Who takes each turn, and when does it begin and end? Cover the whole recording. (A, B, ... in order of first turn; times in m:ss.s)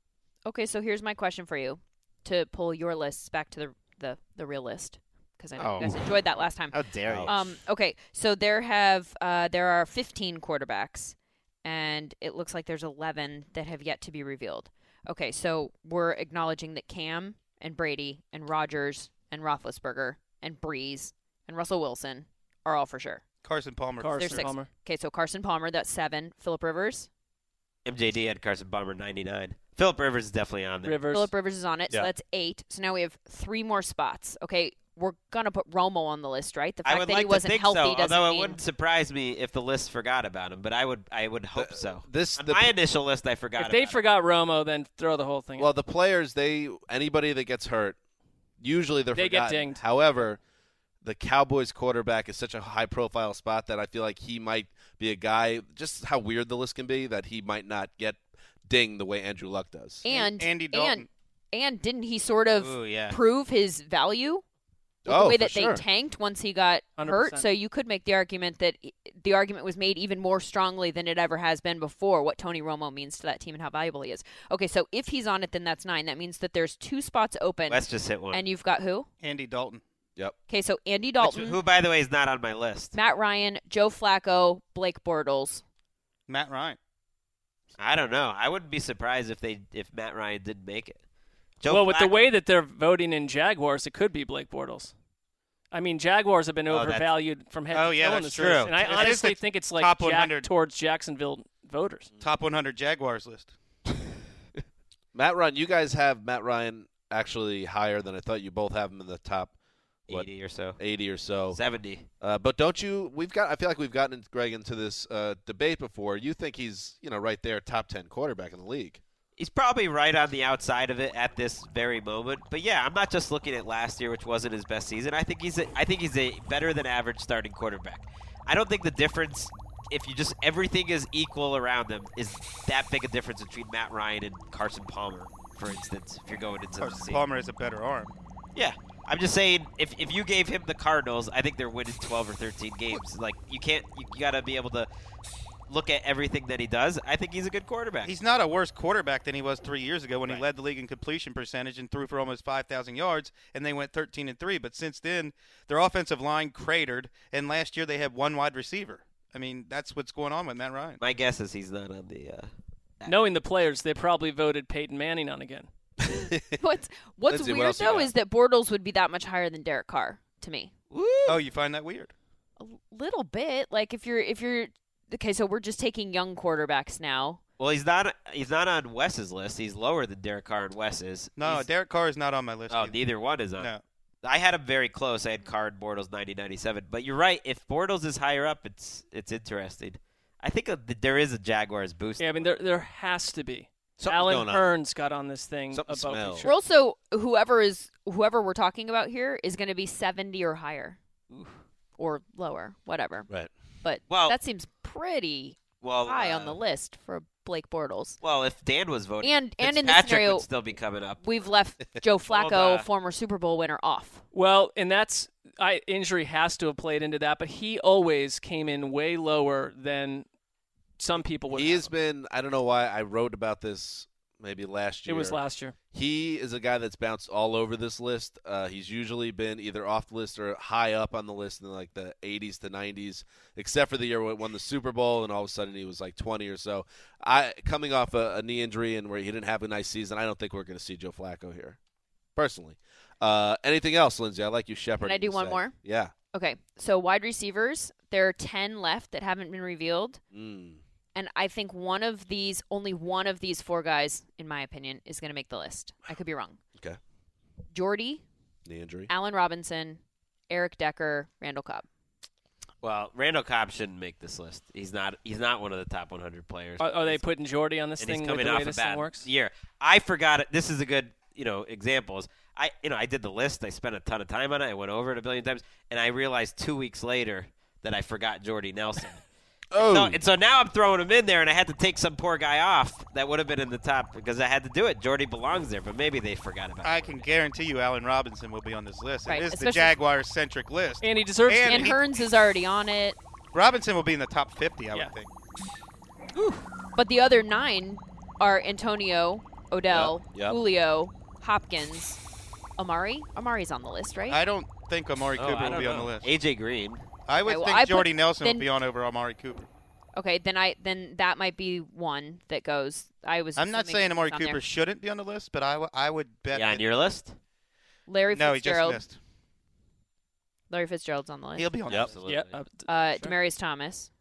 0:00.4-0:23.2 A
0:05.6-0:07.6 B
0:07.1-0:07.3 C
0:23.4-0:24.5 D
0:24.0-0:24.7 E
0:24.2-0:27.1 A
0:27.8-0:31.0 B
0:30.8-0:31.3 E
0:31.1-0:38.6 A
0:36.8-0:44.0 B
0:41.5-0:42.7 C
0:43.6-0:45.7 E
0:45.6-0:48.0 C
0:48.6-0:50.4 C
0:49.1-0:49.8 E
0:51.0-1:00.0 C
1:00.0-1:04.4 A
1:00.1-1:01.1 D
1:02.5-1:03.2 B
1:05.0-1:05.8 C
1:05.0-1:19.1 A
1:07.0-1:07.5 E
1:17.7-1:18.4 B
1:19.2-1:19.8 D
1:20.5-1:21.6 A
1:21.2-1:23.0 B
1:22.9-1:25.6 A
1:26.3-1:26.8 D
1:27.8-1:31.0 B
1:31.6-1:32.3 B
1:31.7-1:34.9 E
1:35.7-1:42.1 E
1:36.7-1:37.1 B
1:37.7-1:40.5 D
1:38.2-1:39.2 B
1:42.2-1:43.5 D
1:45.1-1:49.5 C
1:50.1-1:50.8 B
1:50.1-1:51.6 C
1:51.5-1:52.1 B
1:52.2-1:59.0 C
1:59.4-2:17.2 B
2:16.8-2:18.1 D
2:18.5-2:24.9 B
2:25.7-2:28.1 B
2:28.0-2:41.0 D
2:41.0-2:43.2 B
2:43.0-2:45.7 E
2:46.0-2:46.6 C
2:46.6-2:50.7 A
2:47.3-2:48.1 C
2:50.9-2:51.4 B
2:51.3-2:52.1 D
2:52.6-2:57.4 A
2:57.6-3:01.7 B
3:01.4-3:03.0 D
3:02.7-3:03.7 B
3:03.5-3:03.8 D
3:04.2-3:12.5 B
3:12.2-3:16.5 E
3:14.0-3:14.6 C
3:15.7-3:16.5 C
3:16.4-3:21.0 A
3:21.3-3:21.6 B
3:22.0-3:23.3 A
3:23.8-3:28.2 A
3:24.1-3:24.4 B
3:25.8-3:26.6 B
3:28.2-3:31.2 B
3:29.2-3:30.4 A
3:31.2-3:34.2 A
3:32.3-3:32.9 B
3:34.3-3:40.2 E
3:41.0-3:41.9 E
3:41.5-3:45.4 C
3:45.0-3:45.7 E
3:45.9-4:01.8 C
4:02.4-4:06.1 C
4:05.0-4:05.7 A
4:06.3-4:10.2 A
4:10.3-4:10.8 C
4:11.1-4:16.6 A
4:17.7-4:18.2 A
4:18.6-4:19.1 C
4:19.1-4:21.8 A
4:22.8-4:27.2 B
4:26.8-4:29.3 E
4:28.0-4:39.2 B
4:39.7-4:40.2 C
4:39.8-4:47.3 B
4:46.8-4:52.0 D
4:49.2-4:50.0 A
4:51.0-4:51.9 E
4:51.6-4:53.2 A
4:53.5-4:55.3 D
4:56.3-4:56.6 B
4:57.0-5:02.2 A
4:59.9-5:00.6 C
5:02.8-5:04.4 A
5:04.3-5:06.3 D
5:05.4-5:07.1 B
5:07.3-5:09.7 D
5:07.4-5:08.7 A
5:10.1-5:14.6 A
5:13.6-5:16.8 D
5:16.5-5:17.4 B
5:18.1-5:19.0 A
5:18.3-5:19.2 D
5:20.7-5:21.7 A
5:21.6-5:22.2 D
5:21.9-5:22.6 B
5:22.2-5:23.3 E
5:22.8-5:24.1 A